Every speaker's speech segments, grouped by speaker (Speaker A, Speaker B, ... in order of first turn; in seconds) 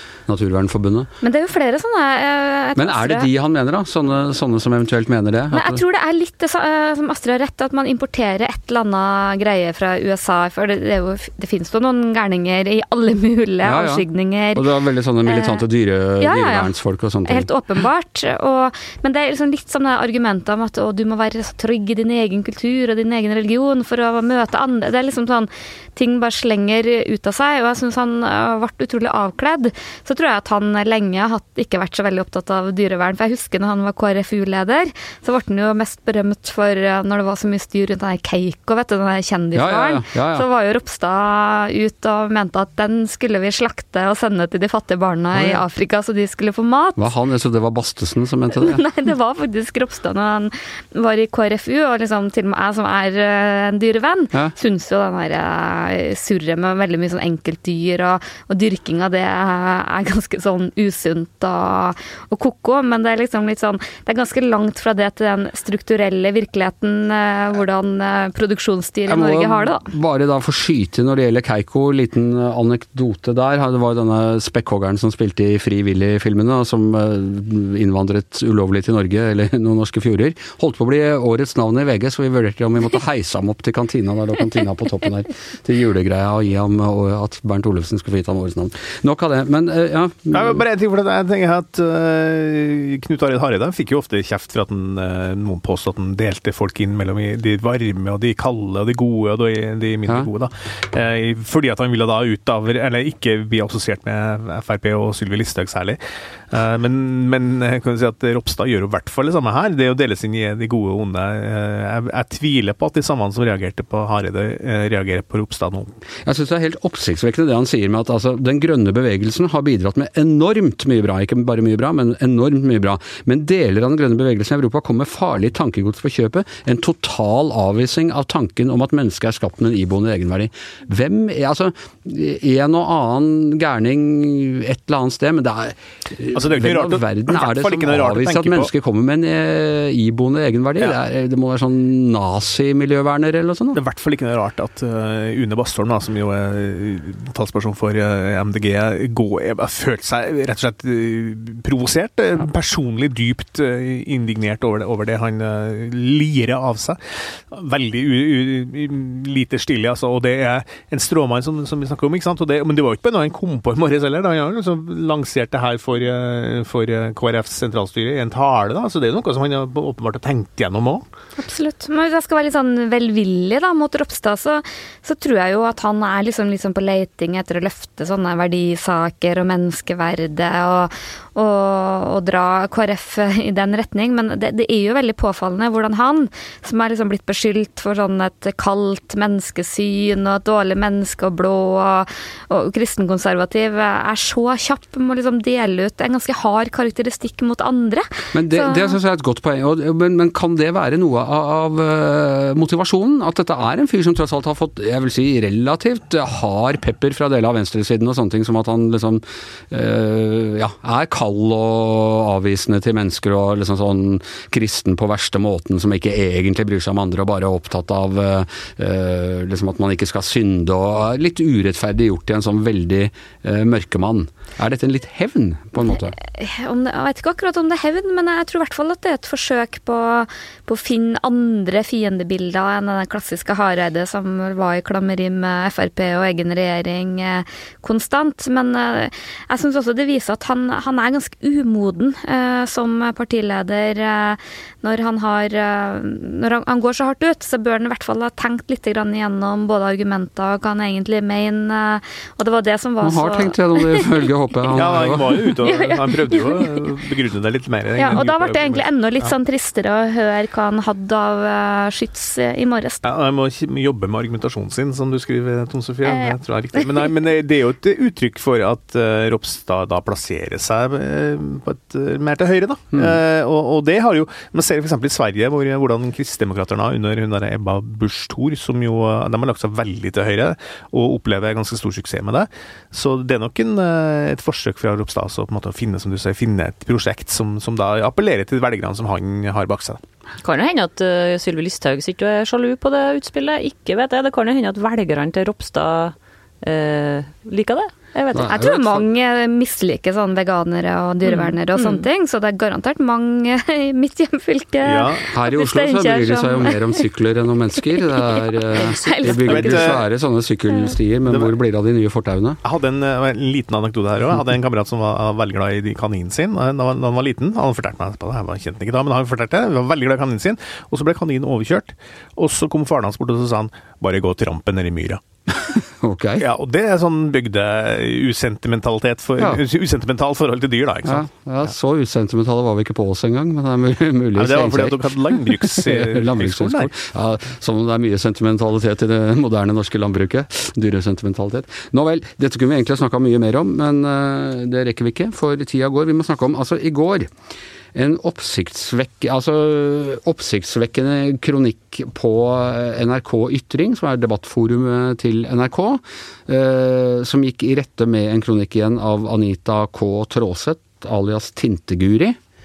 Speaker A: 0.3-1.1, 2.8-5.8, 13.6-17.5, 39.5-40.5, 45.3-45.6, 47.0-48.8, 69.1-90.6, 116.2-143.8, 198.3-226.1, 253.0-255.4, 298.3-299.0, 305.3-312.6, 325.5-326.4, 331.0-347.3, 347.9-362.4
Speaker B: 1.2-3.3, 5.5-14.7, 15.2-15.6, 16.2-47.1, 48.5-69.8, 171.4-199.0, 225.8-254.9, 255.6-256.7, 257.9-263.0, 298.5-307.1, 308.0-310.0
Speaker C: 90.3-106.0, 106.5-115.9, 136.3-138.7, 143.7-157.0, 157.5-171.1, 254.7-259.3, 263.0-290.0, 304.8-305.3, 309.4-310.0, 311.3-311.5, 312.6-325.2, 326.4-331.3, 334.4-336.9
Speaker D: 290.4-298.5, 301.2-302.0